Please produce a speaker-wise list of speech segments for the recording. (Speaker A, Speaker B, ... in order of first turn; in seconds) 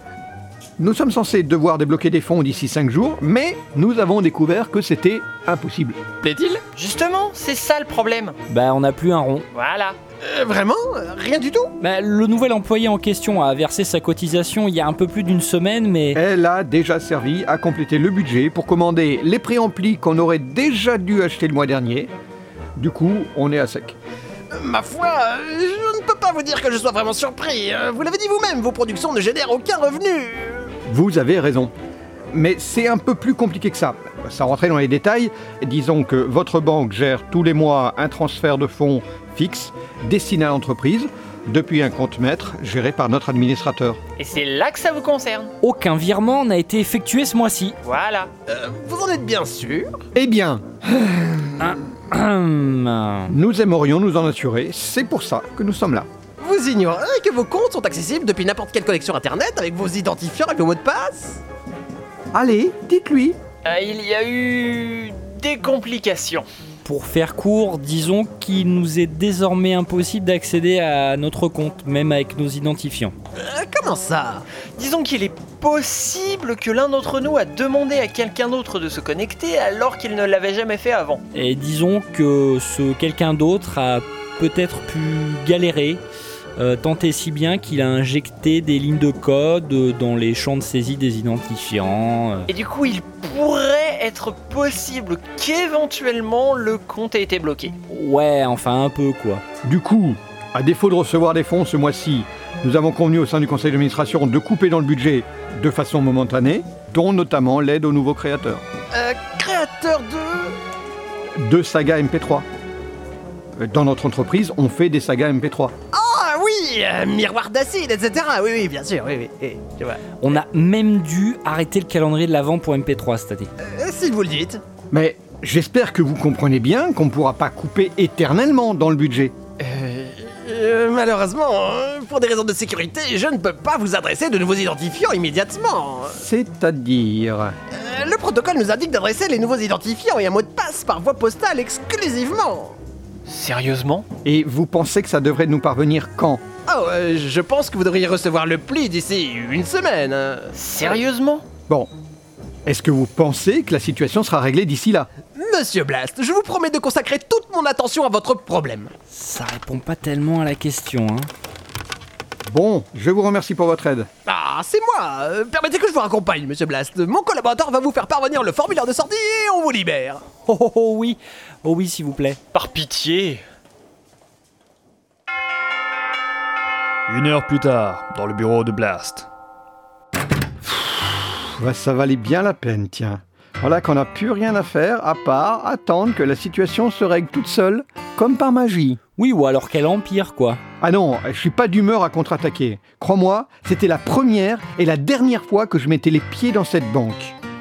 Speaker A: 0.8-6.0, 16.1-22.1, 22.8-24.0, 30.9-31.7, 32.3-44.0, 50.1-51.7, 53.3-56.1, 62.3-63.4, 99.6-108.6, 111.4-112.5, 113.6-115.7, 124.9-129.3, 136.1-137.6, 144.2-146.4, 152.7-155.1, 162.4-164.1, 180.6-189.0, 190.8-197.3
Speaker B: 6.2-6.7, 10.2-11.7, 24.5-30.7, 48.5-49.9, 56.4-61.4, 73.4-74.5, 108.9-110.6, 115.9-120.0, 123.6-124.6, 129.6-136.2, 137.7-142.8, 146.7-151.0, 155.3-158.9, 164.3-170.2
Speaker C: 6.7-8.4, 9.5-10.0, 44.2-45.5, 47.8-48.3, 63.6-66.5, 74.8-81.2, 92.5-97.7, 143.3-144.1, 150.5-151.4, 172.5-173.4
Speaker D: 8.5-9.5, 11.8-16.2, 45.6-47.8, 51.6-53.3, 66.8-73.1, 81.3-86.0, 86.6-92.5, 97.9-99.4, 120.2-123.5, 159.1-161.3, 170.4-172.4, 189.2-190.6
Speaker E: 177.1-179.3